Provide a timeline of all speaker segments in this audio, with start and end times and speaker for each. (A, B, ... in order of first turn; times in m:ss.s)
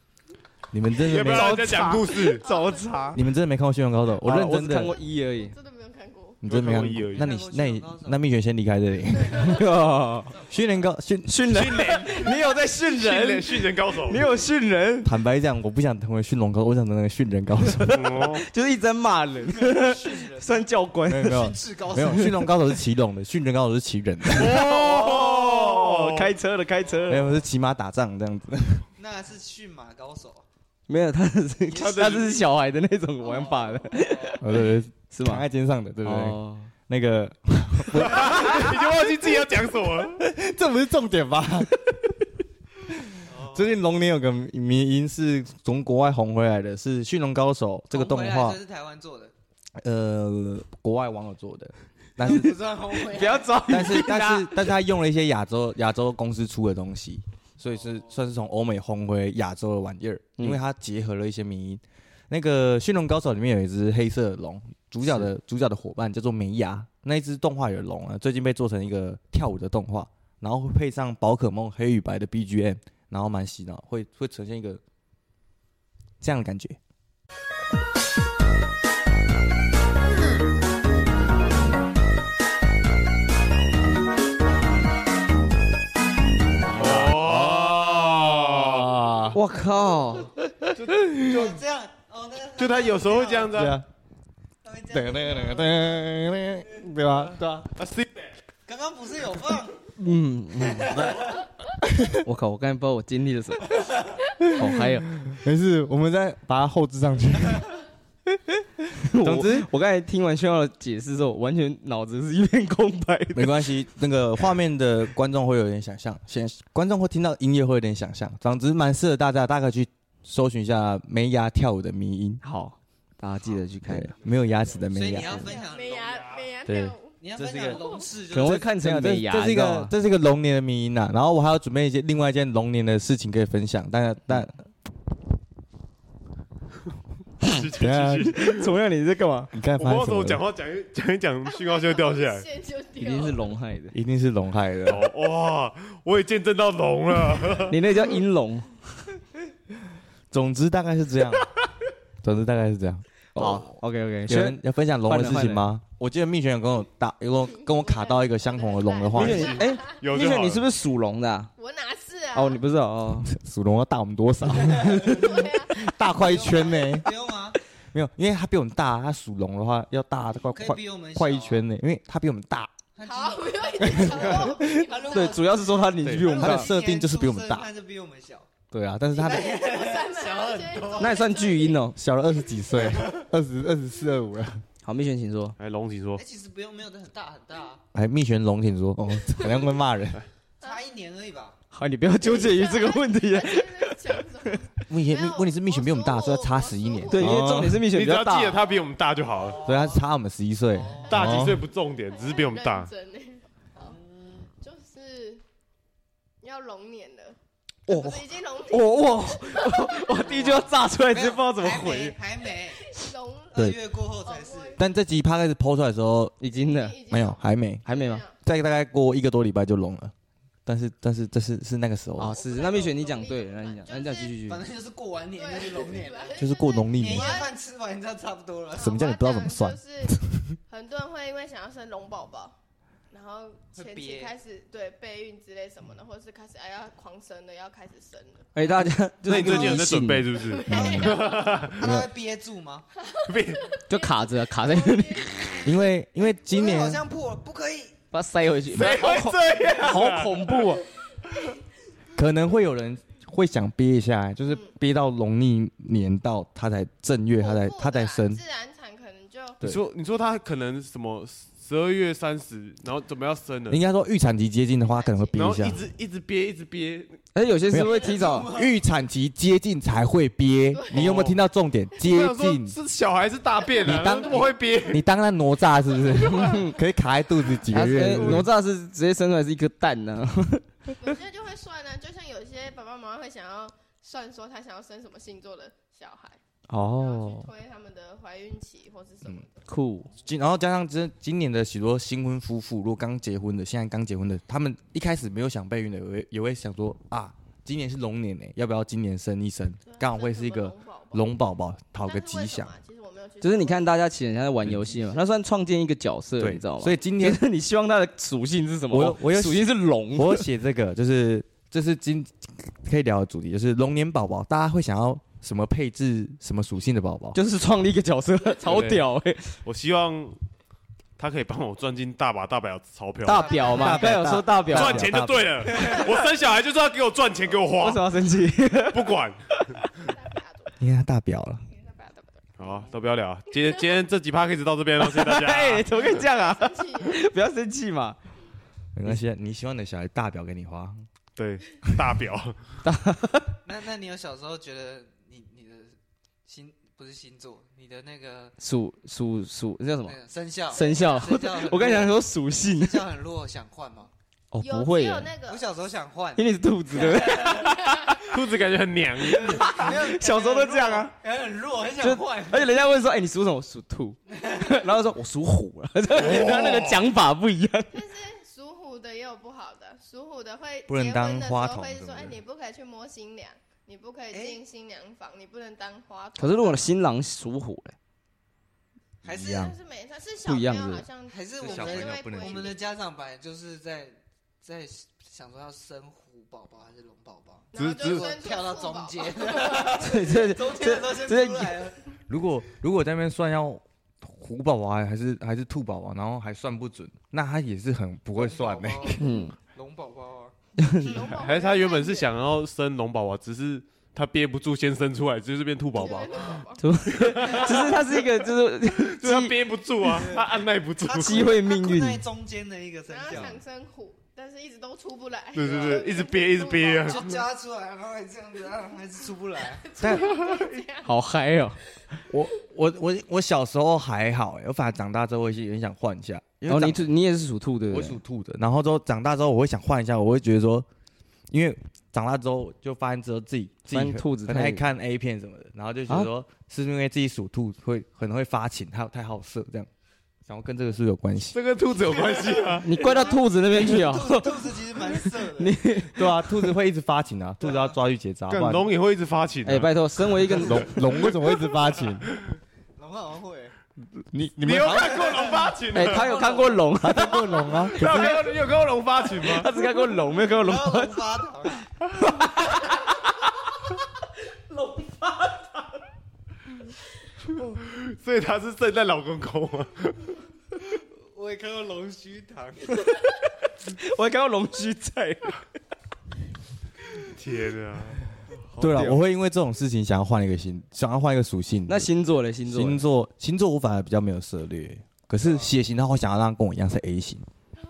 0:00.7-0:02.0 A
0:01.0-0:02.5 B
0:01.3-0:03.2 C
0:02.2-0:03.2 D
0:03.1-0:04.9 A
0:04.2-0:05.5 C
0:04.8-0:06.4 D
0:06.4-0:09.5 A
0:06.4-0:07.3 B
0:07.1-0:08.2 E
0:09.2-0:09.6 D
0:09.4-0:10.3 C
0:10.5-0:11.9 A
0:11.3-0:15.1 C
0:11.5-0:14.3 B
0:15.0-0:18.1 A
0:17.9-0:18.4 B
0:17.9-0:21.5 C
0:19.5-0:22.6 E
0:21.1-0:24.6 A
0:24.3-0:27.4 C
0:24.4-0:26.3 B
0:27.1-0:28.9 A
0:29.0-0:30.5 E
0:30.9-0:34.5 C
0:31.7-0:32.4 E
0:31.8-0:32.4 B
0:33.2-0:34.4 E
0:34.4-0:38.8 A
0:35.1-0:35.4 C
0:36.0-0:36.7 C
0:37.9-0:40.3 B
0:40.2-0:41.9 A
0:43.0-0:48.6 A
0:43.2-0:43.8 E
0:47.9-0:49.3 E
0:49.8-0:52.6 A
0:52.2-0:53.8 E
0:52.9-0:54.7 C
0:53.7-1:14.8 A
0:57.6-0:58.2 E
1:16.2-1:16.8 A
1:26.7-1:29.4 A
1:26.7-1:28.9 B
1:29.3-1:30.3 C
1:30.4-1:31.6 A
1:30.8-1:31.1 B
1:31.1-1:33.7 E
1:32.6-1:33.8 B
1:33.5-1:33.9 A
1:34.6-1:36.4 E
1:34.9-1:37.7 A
1:37.8-1:38.3 B
1:38.7-1:39.9 E
1:40.0-1:41.2 C
1:40.6-1:41.4 E
1:41.9-1:42.2 A
1:42.2-1:43.9 C
1:44.5-1:45.1 C
1:44.6-1:47.7 A
1:48.3-1:48.6 A
1:49.0-1:53.7 C
1:49.1-1:49.7 A
1:53.3-2:02.4 A
2:02.4-2:04.1 C
2:03.9-2:05.5 A
2:04.9-2:06.4 E
2:05.4-2:08.0 D
2:06.7-2:07.8 A
2:07.2-2:08.7 E
2:08.3-2:09.9 C
2:08.4-2:14.6 A
2:17.4-2:18.7 B
2:17.7-2:18.4 A
2:18.3-2:19.5 C
2:19.5-2:20.4 A
2:19.8-2:22.5 B
2:21.5-2:23.5 D
2:23.0-2:24.0 C
2:23.9-2:25.1 A
2:24.9-2:27.8 B
2:27.7-2:29.1 C
2:30.3-2:31.5 A
2:32.2-2:39.6 A
2:33.4-2:35.7 C
2:37.5-2:40.0 D
2:39.1-2:41.5 C
2:39.2-2:40.7 B
2:41.6-2:42.6 D
2:42.3-2:43.3 C
2:43.2-2:47.1 A
2:44.6-2:45.4 E
2:45.0-2:45.9 D
2:46.1-2:47.6 E
2:47.9-2:52.7 A
2:50.5-2:51.6 E
2:53.0-2:58.5 E
2:53.0-2:55.3 D
2:53.9-2:54.7 A
2:55.1-2:56.7 C
2:56.0-2:57.7 A
2:58.7-2:59.5 A
2:59.2-3:01.2 E
2:59.2-3:01.9 D
3:01.0-3:02.0 C
3:02.0-3:04.6 A
3:04.8-3:05.6 C
3:05.6-3:06.2 B
3:06.2-3:07.8 E
3:07.9-3:10.2 A
3:10.6-3:11.6 E
3:11.7-3:14.7 C
3:12.2-3:17.4 D
3:14.9-3:17.9 A
3:17.1-3:18.6 C
3:17.9-3:19.6 B
3:19.4-3:20.0 E
3:19.6-3:21.6 A
3:20.7-3:21.4 E
3:21.1-3:22.9 B
3:22.1-3:24.0 D
3:23.8-3:24.5 E
3:24.6-3:25.4 D
3:26.4-3:27.4 D
3:27.9-3:30.5 D
3:27.9-3:32.2 C
3:31.1-3:32.9 E
3:32.7-3:34.9 D
3:33.5-3:34.8 E
3:34.8-3:36.4 A
3:36.4-3:37.0 C
3:36.5-3:38.3 D
3:37.1-3:37.8 A
3:37.9-3:38.2 C
3:38.4-3:40.1 A
3:40.7-3:42.4 A
3:42.2-3:44.6 C
3:42.2-3:44.4 D
3:44.5-3:49.0 E
3:45.3-3:47.6 D
3:46.4-3:47.4 A
3:48.8-3:52.6 D
3:48.8-3:50.4 A
3:53.1-3:58.5 D
3:53.7-3:54.4 E
3:58.6-4:00.3 C
3:59.3-4:01.8 B
3:59.4-3:59.7 E
4:00.4-4:01.7 D
4:00.7-4:02.9 E
4:00.7-4:01.1 A
4:01.8-4:02.1 A
4:03.0-4:05.9 D
4:03.3-4:03.7 B
4:03.9-4:05.4 C
4:05.6-4:07.0 A
4:06.5-4:08.0 E
4:08.1-4:10.8 C
4:08.8-4:10.6 B
4:12.2-4:18.4 A
4:17.4-4:19.6 D
4:19.6-4:23.8 B
4:23.7-4:25.8 A
4:24.8-4:25.8 D
4:25.4-4:27.2 B
4:27.3-4:28.5 C
4:27.7-4:32.8 A
4:27.9-4:28.8 E
4:30.7-4:31.1 D
4:30.9-4:31.4 B
4:32.0-4:35.0 B
4:33.8-4:38.5 A
4:36.3-4:36.7 C
4:37.7-4:40.7 C
4:41.0-4:46.4 D
4:46.7-4:47.5 C
4:46.9-4:49.6 D
4:49.7-4:50.1 C
4:50.3-5:02.7 A
4:59.9-5:01.3 D
5:02.0-5:04.0 D
5:03.4-5:10.5 C
5:06.4-5:07.4 A
5:08.9-5:17.4 A
5:17.3-5:19.6 C
5:18.7-5:19.0 A
5:19.6-5:20.4 B
5:21.2-5:23.6 B
5:23.2-5:25.1 C
5:23.5-5:23.9 D
5:23.6-5:25.7 A
5:24.7-5:28.0 B
5:25.7-5:26.0 C
5:27.8-5:29.1 C
5:28.9-5:29.4 B
5:30.0-5:30.7 D
5:30.8-5:31.6 A
5:31.7-5:32.5 D
5:32.6-5:36.0 B
5:35.0-5:38.2 C
5:36.2-5:37.2 D
5:39.0-5:41.1 A
5:41.4-5:42.6 B
5:42.8-5:43.6 C
5:43.6-5:48.6 E
5:48.6-5:50.2 C
5:50.0-5:54.1 E
5:50.7-5:53.0 C
5:54.5-5:55.3 C
5:54.6-5:55.7 D
5:55.5-5:57.7 E
5:56.4-5:58.2 C
5:57.9-5:58.2 D
5:58.2-5:59.9 B
5:59.3-6:02.8 E
5:59.4-6:01.1 C
6:02.0-6:08.0 C
6:06.2-6:07.0 B
6:07.9-6:16.9 D
6:10.9-6:12.4 A
6:14.3-6:14.6 E
6:16.4-6:18.0 C
6:19.2-6:19.7 E
6:19.3-6:19.7 A
6:19.4-6:22.8 D
6:20.4-6:21.1 C
6:21.3-6:32.1 E
6:21.6-6:22.7 A
6:27.7-6:30.0 D
6:27.8-6:28.3 B
6:30.0-6:31.8 C
6:32.3-6:39.2 A
6:38.4-6:40.5 E
6:39.2-6:39.6 C
6:40.8-6:41.1 C
6:41.0-6:42.3 D
6:41.3-6:46.6 B
6:46.0-6:46.8 D
6:46.0-6:46.6 E
6:46.8-6:49.6 C
6:47.2-6:48.0 B
6:47.5-6:47.9 E
6:49.0-6:51.5 B
6:50.1-6:50.5 E
6:51.0-6:53.6 E
6:51.2-6:52.2 C
6:53.1-6:57.3 D
6:55.6-6:57.4 B
6:55.6-6:56.4 E
6:57.0-6:59.9 E
6:59.8-7:01.1 D
7:00.0-7:00.5 A
7:00.4-7:00.8 B
7:01.0-7:01.8 C
7:02.3-7:07.1 A
7:06.7-7:08.2 C
7:07.9-7:10.9 A
7:11.5-7:19.9 A
7:13.9-7:14.8 C
7:20.5-7:21.6 A
7:21.5-7:22.9 B
7:22.1-7:25.8 E
7:22.8-7:26.4 C
7:26.1-7:28.9 A
7:27.6-7:28.0 E
7:28.5-7:30.7 B
7:29.7-7:31.0 C
7:30.6-7:32.3 A
7:33.0-7:33.8 E
7:34.2-7:35.5 A
7:34.6-7:36.5 B
7:35.0-7:36.9 E
7:35.9-7:37.5 C
7:37.0-7:38.4 A
7:37.9-7:39.7 B
7:39.5-7:41.2 C
7:40.4-7:41.9 E
7:42.2-7:42.8 C
7:45.0-7:45.2 E
7:47.8-7:50.3 B
7:50.8-7:53.1 E
7:53.8-7:55.6 C
7:57.3-7:58.3 B
7:58.8-7:59.2 C
7:58.8-8:02.1 A
8:01.9-8:03.0 C
8:02.7-8:07.5 A